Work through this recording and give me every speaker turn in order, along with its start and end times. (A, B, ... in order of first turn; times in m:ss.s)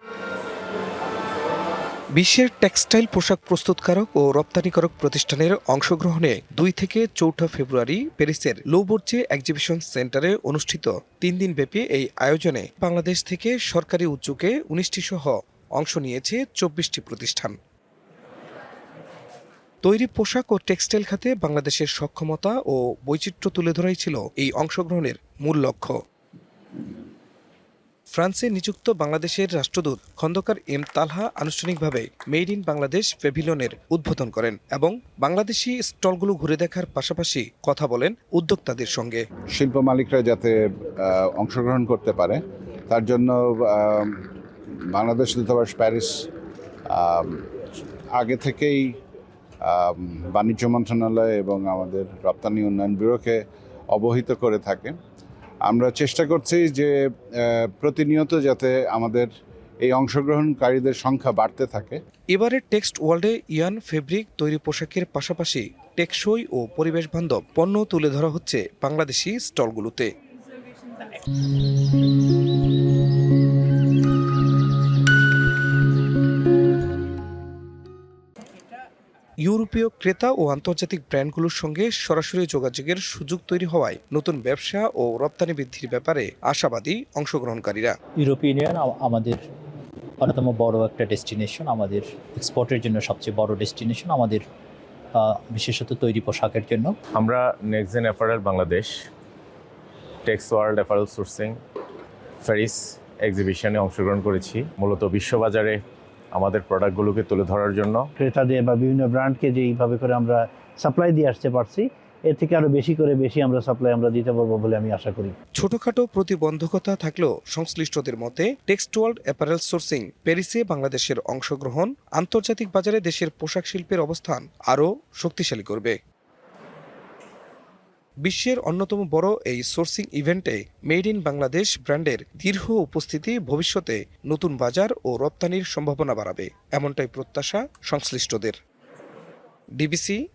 0:02.2-0:17.6 A
0:19.8-0:25.9 A
0:28.1-0:39.2 A
0:39.5-0:44.2 B
0:44.9-0:46.3 B
0:46.9-0:47.4 B
0:48.1-0:49.0 B
0:49.6-0:53.4 B
0:53.9-0:55.0 B
0:55.7-0:59.3 B
0:59.8-1:02.0 B
1:02.3-1:10.1 A
1:19.4-1:28.0 A
1:28.2-1:29.4 C
1:30.2-1:34.4 C
1:35.2-1:37.0 C
1:37.2-1:38.9 D
1:40.3-1:41.6 D
1:42.4-1:45.8 D
1:46.3-1:48.0 D
1:48.2-1:55.4 E
1:55.6-2:05.9 A
2:08.2-2:18.6 A
2:19.8-2:20.2 A